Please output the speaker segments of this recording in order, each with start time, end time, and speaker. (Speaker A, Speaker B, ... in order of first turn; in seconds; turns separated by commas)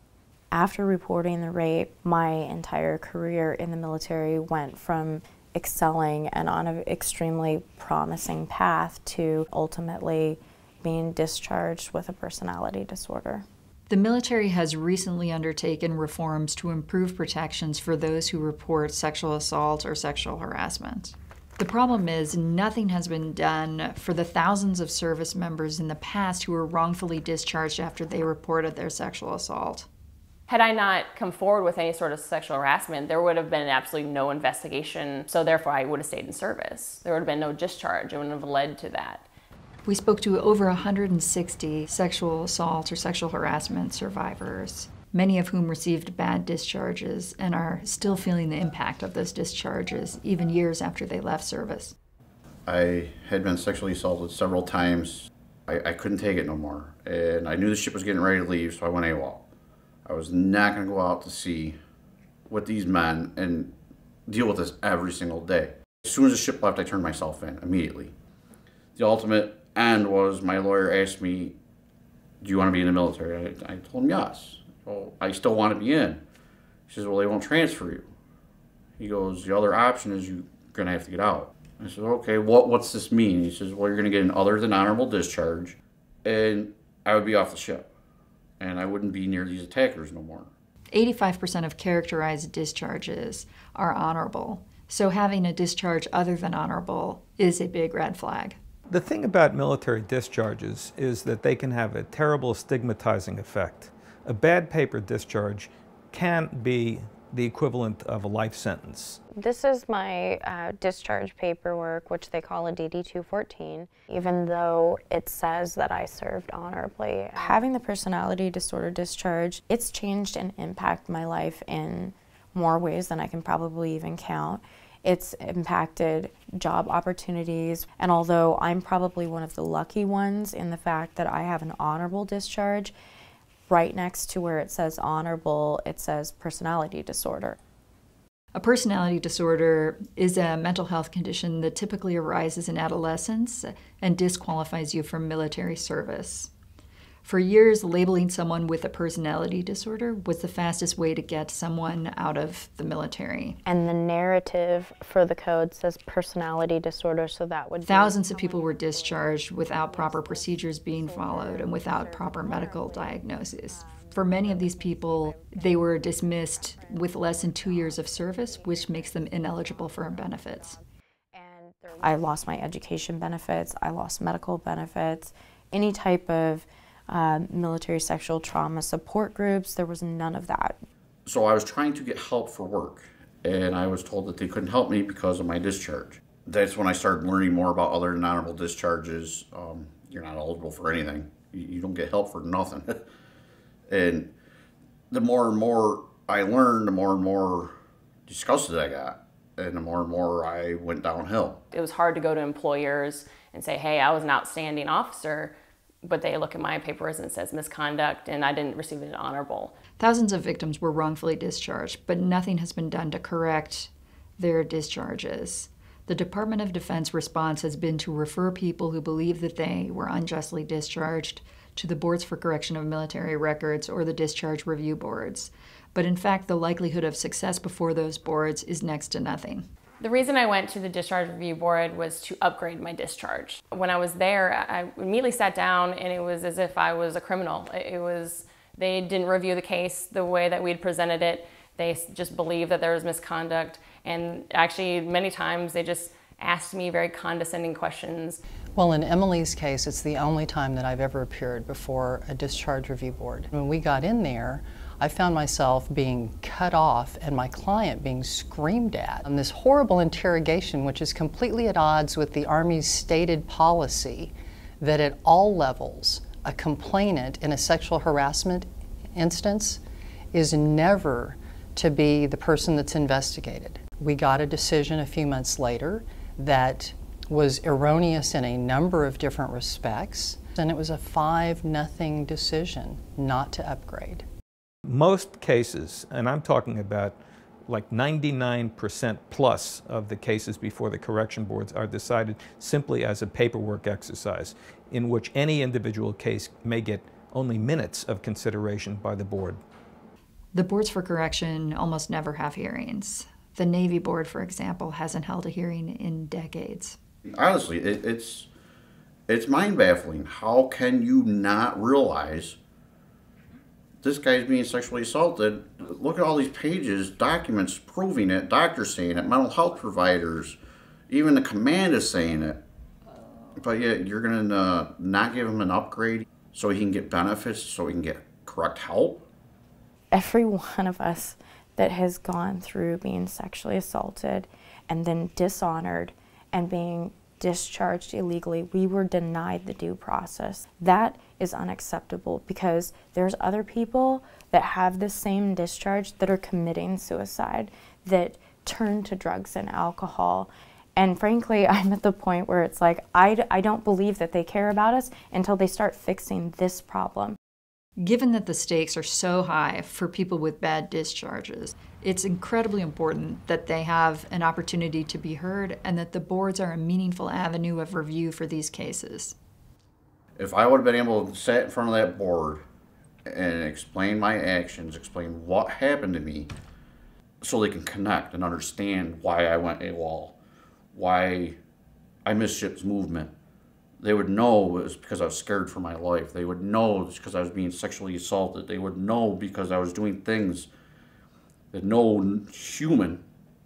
Speaker A: 0.5-13.4, Speaker B: 13.9-29.9, Speaker C: 30.5-39.3, Speaker B: 39.9-51.9, Speaker D: 52.7-59.5, Speaker D: 60.0-61.8, Speaker D: 62.5-63.7, Speaker D: 64.3-68.1, Speaker D: 69.0-71.6, Speaker D: 72.4-76.2, Speaker D: 76.9-78.1, Speaker D: 79.0-87.9, Speaker D: 88.6-90.5, Speaker B: 90.9-98.6, Speaker E: 98.9-109.2, Speaker A: 109.4-132.9, Speaker A: 133.7-137.6, Speaker B: 138.5-146.5, Speaker B: 147.2-153.6, Speaker A: 153.7-158.2, Speaker B: 157.8-170.8, Speaker A: 172.0-180.8, Speaker D: 181.2-193.0, Speaker D: 193.9-194.3, Speaker D: 195.1-197.8, Speaker D: 198.3-201.6, Speaker C: 201.7-209.8, Speaker B: 210.0-229.7, Speaker C: 230.0-248.4, Speaker F: 248.8-269.8, Speaker F: 270.3-284.2, Speaker E: 284.9-299.6, Speaker B: 300.5-307.0, Speaker D: 307.3-308.5, Speaker D: 309.3-312.6, Speaker D: 314.0-320.6, Speaker D: 321.1-322.6, Speaker D: 323.6-329.2, Speaker A: 330.1-357.4, Speaker B: 358.0-369.4, Speaker D: 370.4-372.6, Speaker D: 373.3-376.5, Speaker D: 377.4-380.4, Speaker D: 380.9-381.6, Speaker D: 382.2-383.3, Speaker D: 384.0-390.7, Speaker D: 391.7-393.2